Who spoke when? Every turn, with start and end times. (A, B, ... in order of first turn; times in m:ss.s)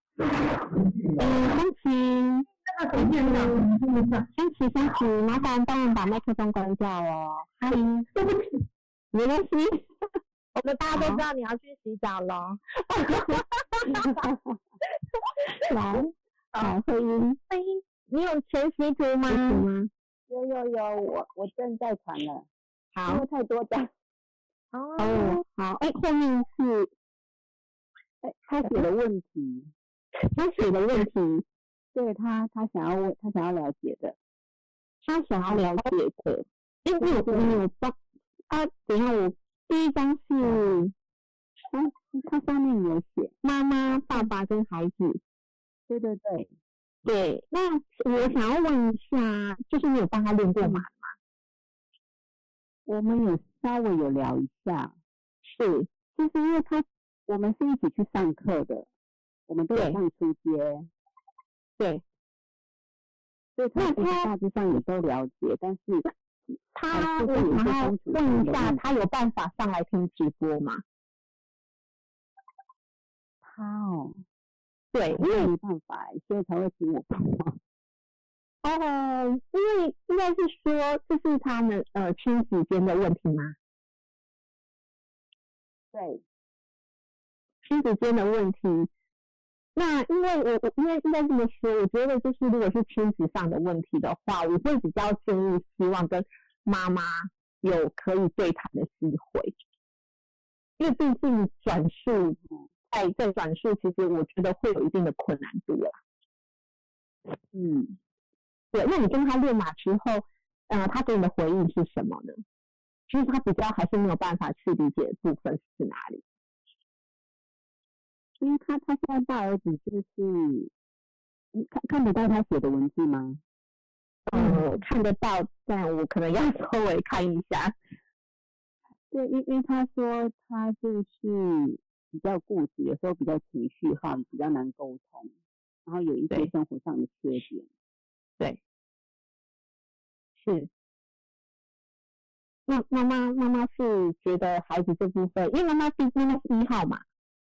0:01.2-0:03.6 A
0:04.3-0:08.0 A
0:09.1-0:09.8 A
0:10.5-0:12.6 B
0:11.0-0:11.2 A
0:13.9-0:14.6 C
0:15.7-0:16.1 B
0:16.5-0:17.4 A
0:17.5-0:19.7 B
0:19.3-0:19.9 A
0:20.3-0:22.5 C
0:23.0-0:23.2 B
0:23.0-0:23.9 C
0:24.7-0:25.4 B
0:25.0-0:26.9 A
0:28.2-0:29.7 C
0:30.2-0:31.4 A
0:31.9-0:34.2 C
0:35.1-0:38.0 A
0:35.4-0:35.8 C
0:37.0-0:37.6 C
0:38.5-0:40.9 A
0:41.7-0:43.3 C
0:43.4-0:45.2 A
0:45.9-0:46.5 C
0:47.0-0:51.1 A
0:50.6-0:50.8 C
0:52.8-0:54.9 C
0:55.4-0:56.4 A
0:56.2-0:58.9 C
0:59.5-1:00.9 C
0:59.7-1:00.0 A
1:03.6-1:06.1 C
1:03.8-1:04.3 A
1:06.7-1:10.8 A
1:06.9-1:08.8 C
1:13.4-1:14.2 C
1:14.9-1:15.5 A
1:15.1-1:17.6 C
1:18.6-1:23.6 A
1:25.9-1:26.2 C
1:27.6-1:28.9 A
1:29.8-1:39.5 A
1:40.8-1:42.4 A
1:42.9-1:46.0 A
1:47.5-1:48.0 C
1:48.7-1:52.4 A
1:53.1-1:56.2 A
1:58.4-2:00.7 C
2:01.5-2:03.4 C
2:04.3-2:07.7 A
2:09.1-2:15.3 C
2:15.8-2:17.7 C
2:20.4-2:20.7 A
2:22.7-2:27.0 A